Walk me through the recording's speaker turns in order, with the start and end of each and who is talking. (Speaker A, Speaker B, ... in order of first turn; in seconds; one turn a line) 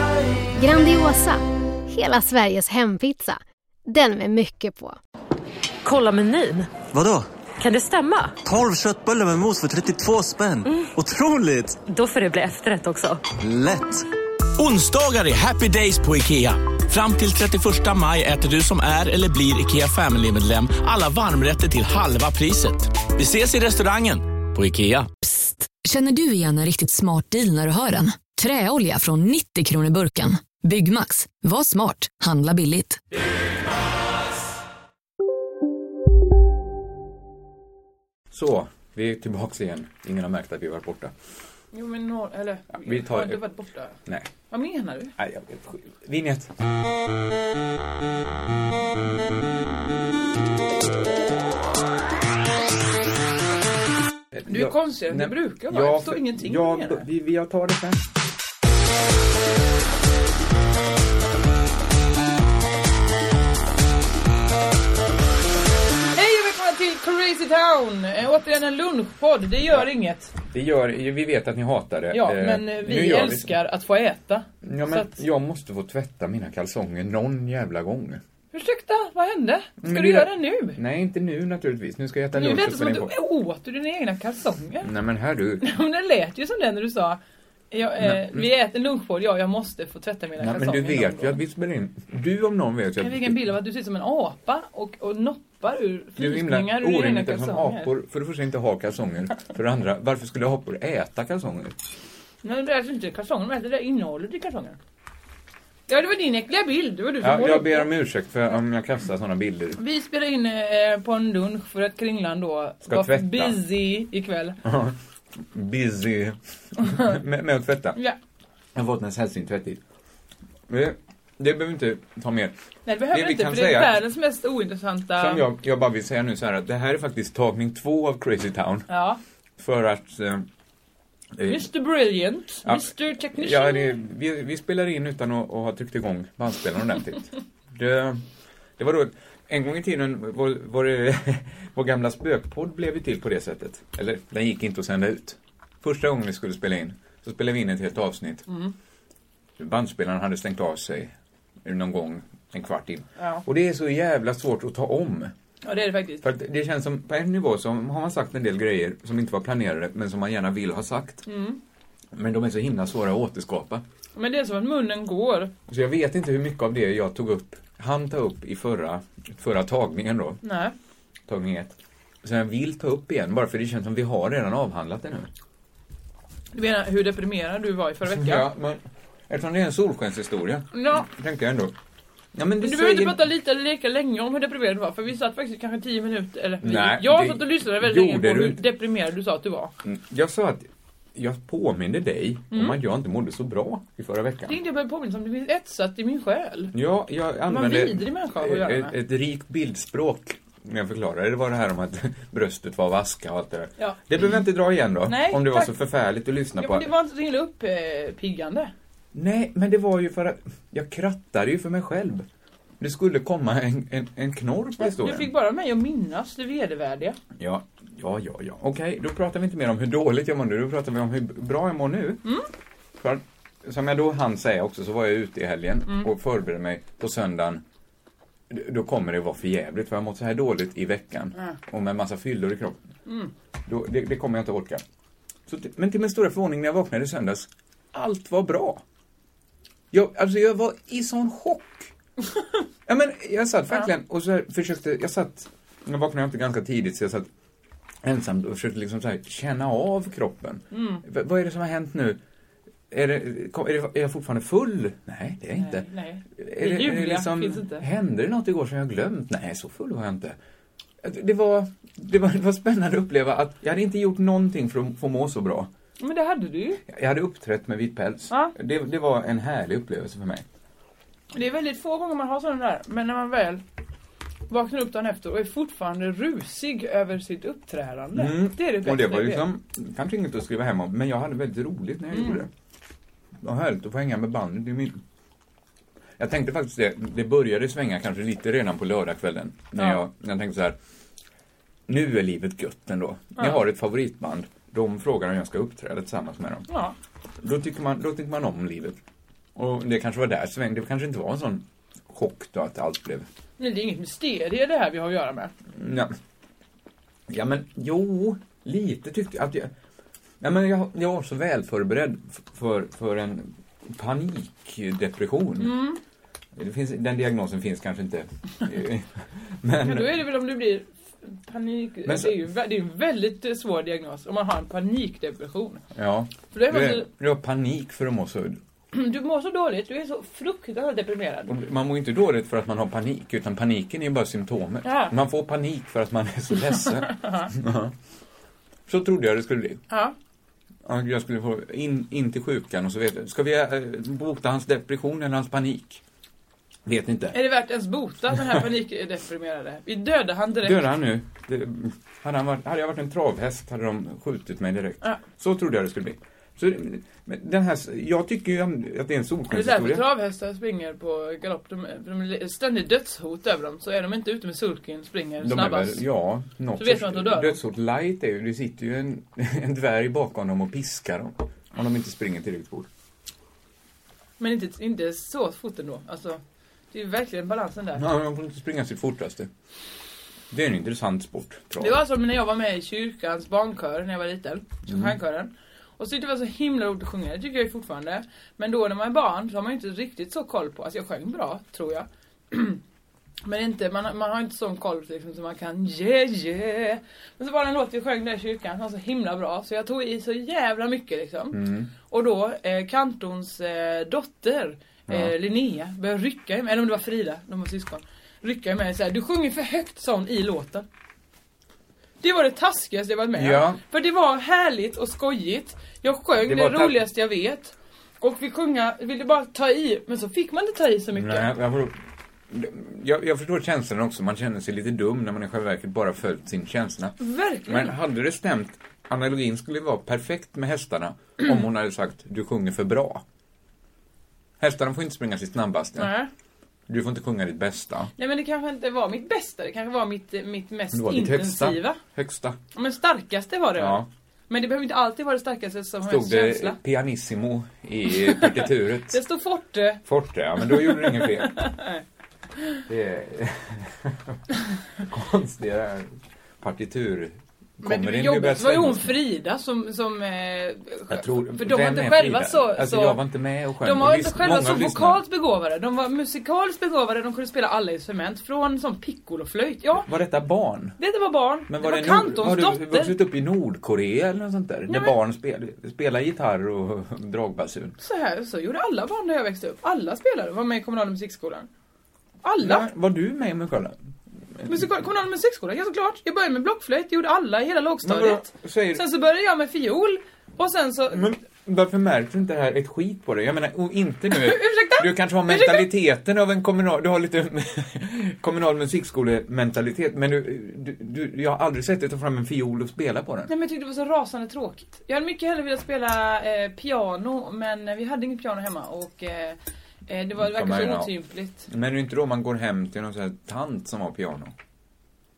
Speaker A: 0.6-5.0
Speaker B: 5.8-6.7
Speaker C: 6.9-7.3
Speaker B: 7.6-8.4
Speaker C: 8.4-11.8
Speaker B: 11.9-13.2
Speaker C: 13.4-14.1
Speaker D: 14.6-25.2
Speaker E: 25.2-33.0
Speaker F: 38.3-41.1
Speaker G: 41.7-44.0
Speaker F: 42.7-43.4
Speaker G: 44.5-45.1
Speaker F: 45.2-46.5
Speaker F: 54.3-58.0
Speaker G: 54.5-57.0
Speaker G: 66.2-70.3
Speaker F: 70.5-73.5
Speaker G: 72.1-75.2
Speaker F: 74.6-78.2
Speaker G: 78.5-80.8
Speaker F: 79.8-83.1
Speaker G: 82.3-84.9
Speaker F: 84.8-85.7
Speaker G: 85.6-87.2
Speaker G: 87.7-91.4
Speaker F: 88.0-88.5
Speaker F: 90.4-93.4
Speaker G: 93.0-97.9
Speaker F: 96.2-101.8
Speaker G: 102.4-104.8
Speaker G: 105.9-107.9
Speaker F: 107.2-109.8
Speaker G: 109.8-114.6
Speaker F: 112.8-113.6
Speaker F: 114.6-115.0
Speaker F: 115.5-118.0
Speaker F: 118.8-119.8
Speaker F: 120.7-122.5
Speaker G: 122.9-125.5
Speaker F: 123.1-124.0
Speaker F: 125.2-128.9
Speaker G: 128.9-129.2
Speaker F: 129.6-130.5
Speaker F: 131.4-131.7
Speaker G: 131.4-134.0
Speaker F: 132.7-138.2
Speaker F: 138.8-148.5
Speaker F: 149.6-151.1
Speaker F: 151.7-155.3
Speaker G: 153.2-153.4
Speaker G: 155.6-156.2
Speaker F: 156.2-161.3
Speaker G: 161.3-161.6
Speaker F: 162.1-163.8
Speaker G: 164.2-165.5
Speaker F: 165.7-170.4
Speaker G: 170.4-170.8
Speaker F: 171.3-175.3
Speaker G: 176.5-178.5
Speaker F: 178.1-181.8
Speaker G: 180.7-181.1
Speaker F: 182.3-183.2
Speaker G: 182.6-189.7
Speaker F: 186.6-188.6
Speaker F: 189.8-194.6
Speaker G: 192.5-192.8
Speaker G: 194.5-196.8
Speaker F: 196.7-206.9
Speaker G: 197.5-198.9
Speaker G: 205.1-205.8
Speaker G: 206.6-208.7
Speaker F: 209.1-212.3
Speaker F: 212.8-215.3
Speaker G: 214.8-217.2
Speaker F: 217.4-222.2
Speaker F: 223.0-227.6
Speaker F: 228.5-232.8
Speaker G: 233.1-233.3
Speaker F: 233.7-234.8
Speaker F: 235.5-238.8
Speaker F: 239.9-241.9
Speaker F: 242.9-247.3
Speaker F: 248.0-252.2
Speaker G: 250.7-251.0
Speaker F: 252.9-260.4
Speaker G: 255.6-257.9
Speaker F: 261.0-265.7
Speaker G: 266.0-266.8
Speaker F: 266.9-270.5
Speaker G: 271.3-273.6
Speaker G: 274.5-279.4
Speaker F: 278.1-282.5
Speaker G: 282.1-282.4
Speaker F: 283.4-285.0
Speaker F: 286.2-290.8
Speaker G: 289.8-290.1
Speaker F: 291.9-296.7
Speaker G: 296.7-296.9
Speaker F: 297.4-299.0
Speaker F: 299.6-303.3
Speaker G: 303.6-305.5
Speaker F: 305.7-306.1
Speaker F: 307.3-309.7
Speaker F: 310.4-315.8
Speaker G: 315.6-316.0
Speaker F: 316.6-320.2
Speaker G: 319.9-325.8
Speaker F: 322.1-322.4
Speaker F: 325.9-328.6
Speaker G: 326.5-327.1
Speaker G: 328.9-331.5
Speaker F: 331.5-337.9
Speaker G: 334.8-335.1
Speaker G: 336.7-337.5
Speaker F: 338.9-339.8
Speaker G: 339.9-340.1
Speaker F: 340.9-346.0
Speaker F: 346.9-347.4
Speaker G: 347.3-350.9
Speaker F: 350.6-360.1
Speaker G: 359.5-366.0
Speaker F: 365.4-372.9
Speaker G: 366.8-367.6
Speaker G: 374.4-376.4
Speaker G: 376.9-378.0
Speaker F: 377.9-379.5
Speaker F: 380.5-382.0
Speaker G: 381.8-392.8
Speaker F: 384.9-385.1
Speaker G: 393.4-410.9
Speaker F: 401.5-401.9
Speaker F: 405.1-405.3
Speaker G: 412.2-421.5
Speaker F: 413.4-413.8
Speaker F: 416.4-417.0
Speaker F: 421.1-422.0
Speaker F: 422.5-433.2
Speaker G: 427.2-427.9
Speaker F: 434.6-436.2
Speaker G: 436.0-436.3
Speaker F: 436.9-438.1
Speaker G: 438.2-442.0
Speaker F: 440.9-442.6
Speaker G: 442.7-446.8
Speaker F: 443.8-444.1
Speaker F: 446.1-449.2
Speaker G: 448.1-450.0
Speaker F: 450.1-451.6
Speaker G: 450.6-452.0
Speaker F: 452.9-454.4
Speaker F: 455.0-459.1
Speaker G: 457.8-463.2
Speaker F: 461.1-465.2
Speaker G: 463.8-470.1
Speaker F: 470.0-471.0
Speaker G: 471.0-473.2
Speaker F: 471.7-478.0
Speaker G: 474.9-475.1
Speaker G: 478.0-481.7
Speaker G: 482.4-482.9
Speaker F: 482.6-484.0
Speaker G: 484.7-491.3
Speaker F: 488.0-489.0
Speaker F: 491.1-503.5
Speaker G: 494.3-495.9
Speaker G: 503.5-511.7
Speaker F: 510.4-511.1
Speaker F: 511.7-514.5